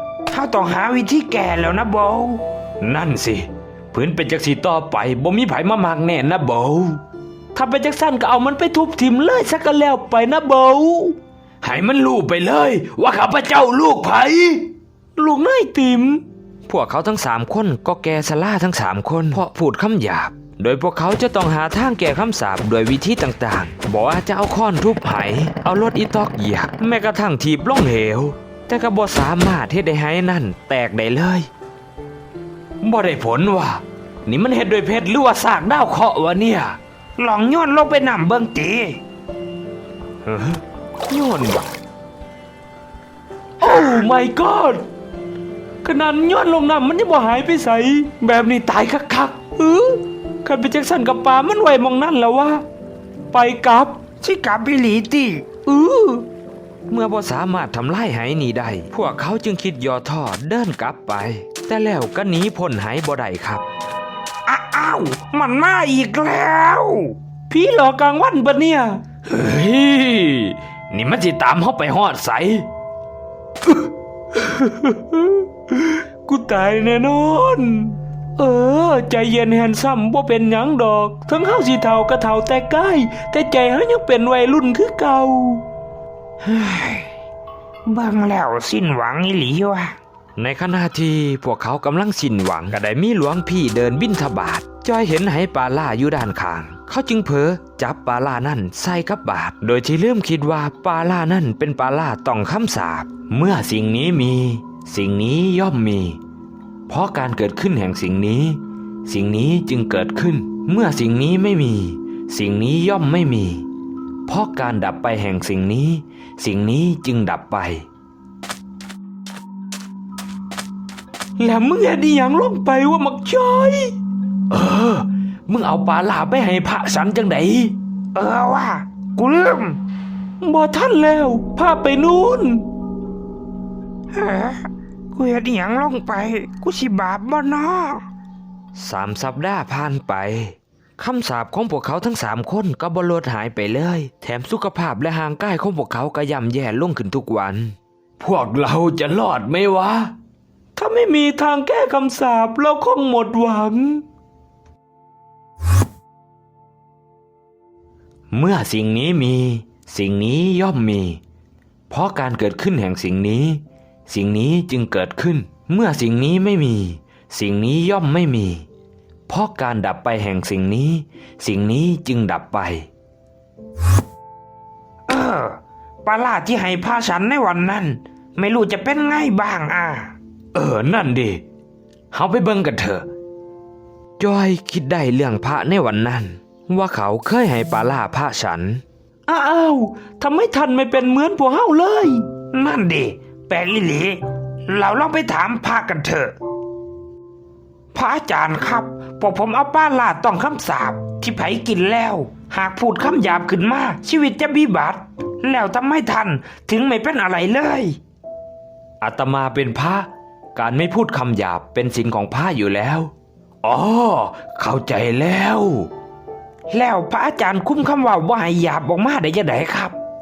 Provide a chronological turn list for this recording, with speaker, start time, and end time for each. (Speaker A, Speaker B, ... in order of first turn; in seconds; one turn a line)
Speaker A: 0.3-2.4
Speaker B: 2.8-7.0
Speaker B: 7.5-31.5
Speaker B: 32.8-36.8
Speaker A: 37.2-39.0
Speaker B: 40.2-41.7
Speaker B: 43.6-44.8
Speaker B: 45.8-52.6
Speaker B: 53.3-54.0
Speaker A: 54.2-55.5
Speaker B: 55.6-56.2
Speaker B: 56.9-63.6
Speaker A: 64.5-67.2
Speaker B: 67.5-72.7
Speaker B: 74.3-85.6
Speaker A: 86.4-87.1
Speaker A: 87.8-90.0
Speaker B: 90.4-106.2
Speaker B: 106.9-113.6
Speaker B: 114.3-117.8
Speaker B: 121.4-123.9
Speaker B: 124.5-127.7
Speaker A: 128.1-129.8
Speaker B: 130.4-132.6
Speaker A: 134.1-138.0
Speaker B: 138.7-150.1
Speaker B: 150.8-154.0
Speaker B: 158.3-161.2
Speaker B: 161.9-168.6
Speaker B: 169.3-172.9
Speaker A: 175.1-180.1
Speaker B: 180.5-181.4
Speaker B: 182.1-183.1
Speaker B: 184.2-192.2
Speaker A: 192.5-196.3
Speaker A: 197.9-208.0
Speaker B: 209.0-213.1
Speaker B: 213.6-215.9
Speaker A: 216.7-219.9